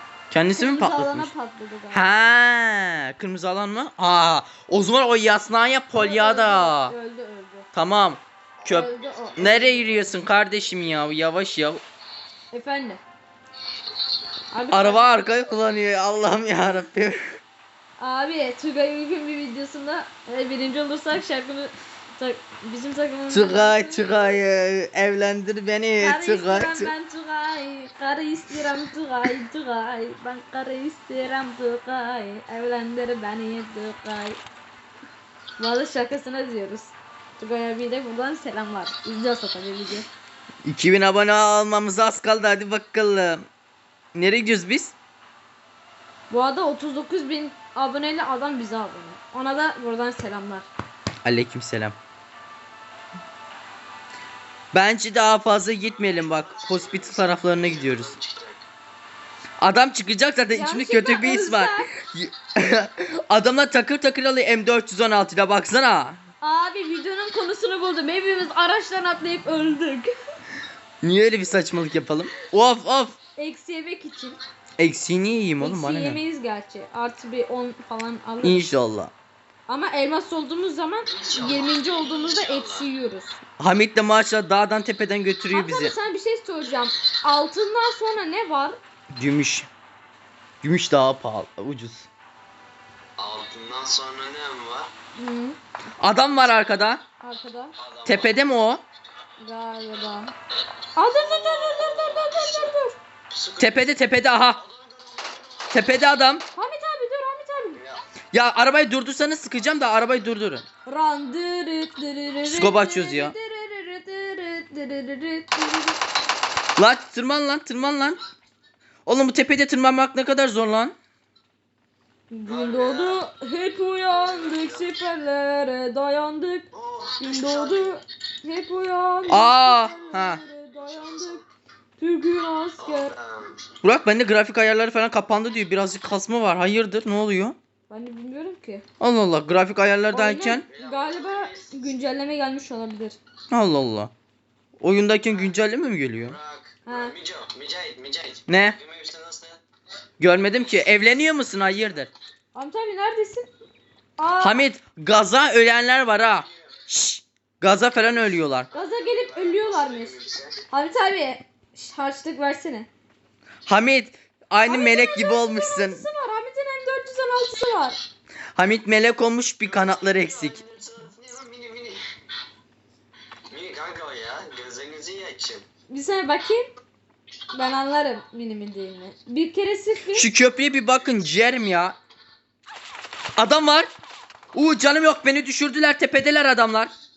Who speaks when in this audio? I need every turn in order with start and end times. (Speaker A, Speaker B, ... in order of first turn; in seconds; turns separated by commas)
Speaker A: 0.3-1.3, Speaker B: 0.5-2.1, Speaker A: 1.9-6.9, Speaker B: 6.0-7.7, Speaker A: 7.7-11.8, Speaker C: 8.6-8.9, Speaker B: 8.7-10.2, Speaker B: 12.5-13.0, Speaker B: 14.5-15.1, Speaker A: 14.7-17.2, Speaker B: 18.0-24.3, Speaker A: 23.3-26.9, Speaker B: 26.0-34.4, Speaker B: 35.6-40.0, Speaker A: 40.6-43.5, Speaker A: 44.1-44.9, Speaker B: 46.3-50.7, Speaker A: 51.2-52.0, Speaker A: 54.7-58.1, Speaker C: 55.8-58.6, Speaker A: 59.6-66.2, Speaker B: 60.5-61.9, Speaker B: 66.4-70.1, Speaker A: 71.0-73.2, Speaker B: 73.4-74.4, Speaker A: 74.8-76.2, Speaker B: 75.6-78.7, Speaker A: 78.4-79.1, Speaker B: 79.7-83.4, Speaker C: 81.0-82.8, Speaker A: 83.6-85.9, Speaker B: 85.5-88.8, Speaker A: 89.1-89.7, Speaker A: 90.6-92.1, Speaker C: 93.2-94.9, Speaker B: 95.2-95.6, Speaker A: 96.0-97.0, Speaker B: 97.2-97.7, Speaker C: 97.8-98.3, Speaker A: 98.0-98.8, Speaker B: 99.4-100.3, Speaker B: 101.0-103.0, Speaker C: 101.0-102.7, Speaker C: 103.3-103.8, Speaker A: 103.6-104.6, Speaker C: 104.5-105.9, Speaker A: 105.7-106.4, Speaker B: 106.5-107.8, Speaker C: 107.8-108.0, Speaker A: 108.3-110.6, Speaker B: 110.8-116.0, Speaker A: 112.5-113.3, Speaker A: 116.8-118.2, Speaker A: 119.0-120.9, Speaker B: 122.3-126.7, Speaker C: 122.5-123.2, Speaker C: 124.1-124.9, Speaker C: 126.7-128.0, Speaker B: 127.2-131.4, Speaker A: 129.3-130.4, Speaker C: 129.9-131.5, Speaker B: 132.0-133.1, Speaker C: 132.8-133.7, Speaker A: 133.8-137.6, Speaker B: 137.9-138.8, Speaker A: 139.0-140.7, Speaker B: 140.1-143.2, Speaker C: 140.7-141.9, Speaker A: 143.5-144.1, Speaker A: 144.8-146.4, Speaker C: 146.2-149.6, Speaker B: 146.8-147.1, Speaker A: 148.5-148.8, Speaker A: 150.2-152.1, Speaker B: 152.5-153.5, Speaker B: 154.2-154.6, Speaker A: 154.4-158.7, Speaker C: 158.7-160.7, Speaker B: 158.7-160.2, Speaker B: 160.7-162.9, Speaker A: 163.7-166.0, Speaker B: 164.6-168.0, Speaker A: 168.6-170.6, Speaker C: 169.6-172.0, Speaker C: 173.5-175.6, Speaker B: 175.9-176.7, Speaker B: 177.5-180.3, Speaker A: 180.1-181.9, Speaker C: 180.9-181.2, Speaker A: 183.4-183.9, Speaker A: 184.5-186.9